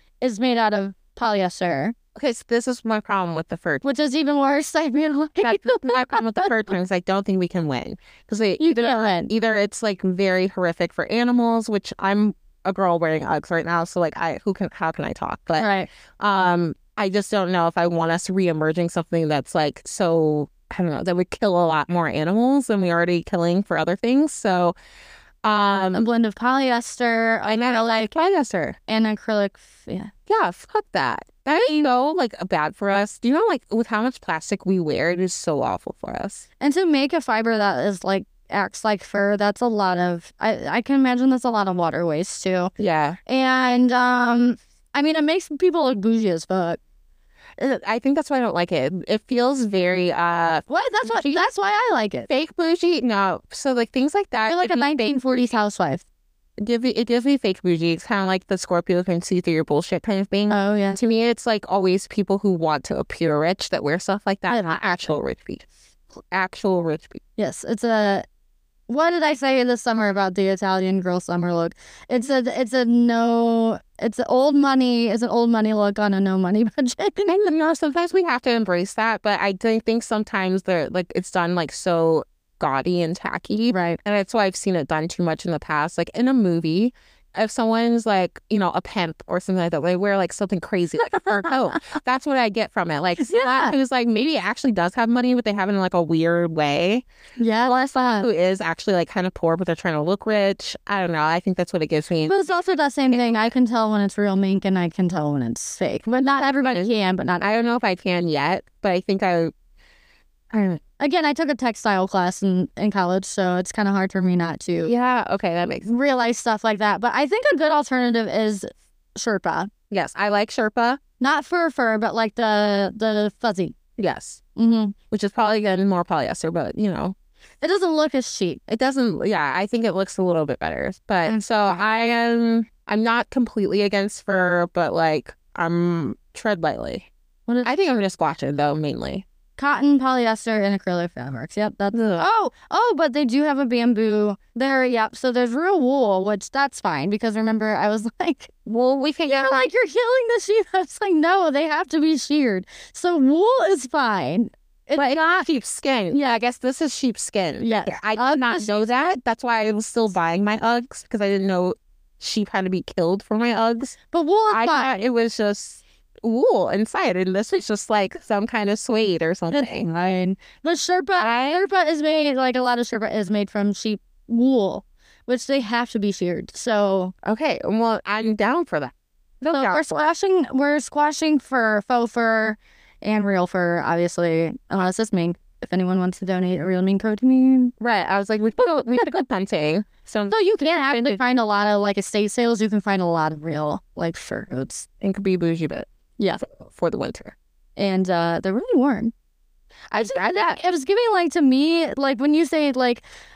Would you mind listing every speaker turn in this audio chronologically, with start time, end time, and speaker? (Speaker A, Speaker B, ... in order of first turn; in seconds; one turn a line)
Speaker A: 0.2-1.9
Speaker B: 2.1-3.8
Speaker A: 3.8-6.7
Speaker B: 5.4-15.7
Speaker A: 8.6-9.3
Speaker A: 15.6-15.9
Speaker B: 16.2-24.8
Speaker B: 25.4-26.1
Speaker A: 25.9-28.1
Speaker B: 27.6-28.8
Speaker A: 28.9-30.1
Speaker B: 30.3-36.5
Speaker A: 31.6-31.9
Speaker A: 36.6-42.7
Speaker B: 42.8-43.2
Speaker A: 43.3-46.8
Speaker B: 47.6-51.4
Speaker A: 50.7-52.3
Speaker B: 52.3-54.8
Speaker A: 54.5-56.0
Speaker B: 56.6-65.7
Speaker A: 60.5-61.0
Speaker B: 66.3-67.2
Speaker A: 67.4-68.3
Speaker A: 68.9-77.3
Speaker B: 77.3-97.0
Speaker A: 83.7-84.0
Speaker A: 93.2-93.7
Speaker A: 97.4-98.3
Speaker B: 98.2-102.3
Speaker A: 102.3-107.5
Speaker B: 107.4-109.5
Speaker B: 110.5-110.8
Speaker A: 111.0-114.9
Speaker B: 114.8-115.9
Speaker A: 115.9-119.7
Speaker B: 119.9-121.0
Speaker A: 121.2-123.8
Speaker B: 124.0-124.4
Speaker A: 124.6-125.0
Speaker B: 125.1-127.2
Speaker A: 127.6-128.6
Speaker B: 128.7-137.1
Speaker B: 137.6-139.3
Speaker A: 139.6-148.5
Speaker B: 141.9-142.3
Speaker B: 148.7-149.5
Speaker A: 149.3-155.2
Speaker B: 155.0-164.0
Speaker A: 157.6-158.7
Speaker A: 164.1-164.9
Speaker B: 164.5-169.9
Speaker A: 169.5-177.1
Speaker B: 171.2-171.6
Speaker B: 177.2-179.8
Speaker A: 179.5-187.7
Speaker B: 187.8-190.3
Speaker A: 190.3-194.9
Speaker B: 195.0-195.9
Speaker B: 196.4-197.4
Speaker A: 197.8-199.1
Speaker A: 199.9-203.0